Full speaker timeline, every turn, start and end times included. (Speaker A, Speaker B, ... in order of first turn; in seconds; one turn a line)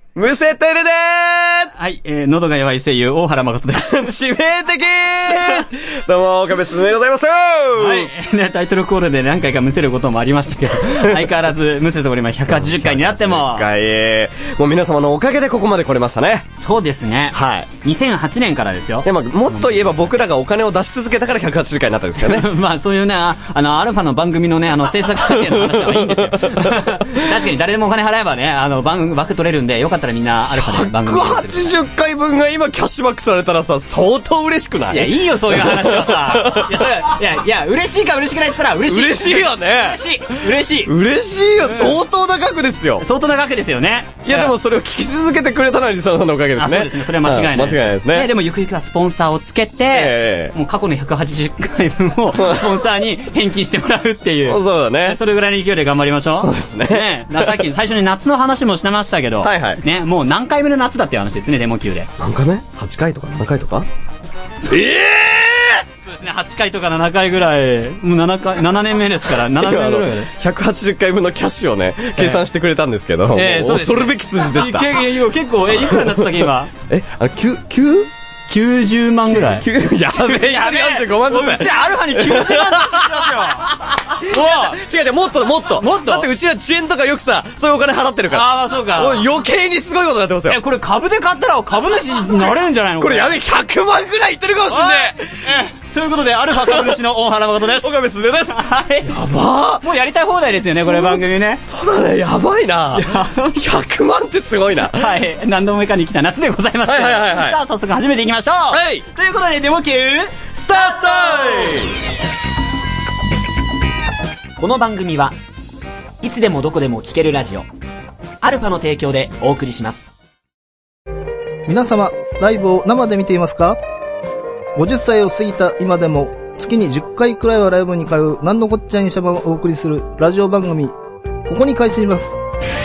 Speaker A: 0.1-1.7
Speaker B: 1.8-4.1
Speaker A: 3.8-8.1
Speaker B: 7.8-13.7
Speaker A: 10.9-11.2
Speaker A: 12.5-16.5
Speaker B: 16.6-20.0
Speaker A: 17.3-17.7
Speaker A: 19.0-22.5
Speaker B: 22.2-31.8
Speaker A: 25.0-27.2
Speaker A: 30.5-37.0
Speaker B: 34.9-40.9
Speaker A: 38.9-43.0
Speaker B: 41.6-42.0
Speaker B: 43.0-44.5
Speaker A: 44.2-48.3
Speaker B: 46.6-62.1
Speaker A: 49.9-50.5
Speaker A: 52.3-52.8
Speaker A: 54.5-55.2
Speaker A: 56.4-57.6
Speaker A: 59.4-59.8
Speaker A: 62.2-63.9
Speaker A: 64.7-65.8
Speaker B: 66.0-70.3
Speaker A: 69.4-75.0
Speaker B: 72.2-72.4
Speaker B: 73.3-76.7
Speaker A: 75.7-78.1
Speaker B: 78.5-79.7
Speaker A: 79.3-90.6
Speaker B: 80.2-84.8
Speaker B: 85.8-86.3
Speaker B: 88.3-89.2
Speaker B: 90.5-93.4
Speaker A: 93.0-95.2
Speaker B: 94.7-97.9
Speaker A: 96.5-97.0
Speaker A: 97.7-99.8
Speaker B: 98.5-99.1
Speaker B: 99.8-101.6
Speaker A: 100.7-105.1
Speaker B: 103.0-103.6
Speaker B: 104.9-110.8
Speaker A: 106.8-107.6
Speaker A: 108.7-109.0
Speaker A: 110.5-111.9
Speaker B: 114.6-115.3
Speaker B: 116.2-117.7
Speaker B: 118.4-120.1
Speaker C: 121.7-123.8
Speaker C: 124.8-130.9
Speaker C: 131.5-132.4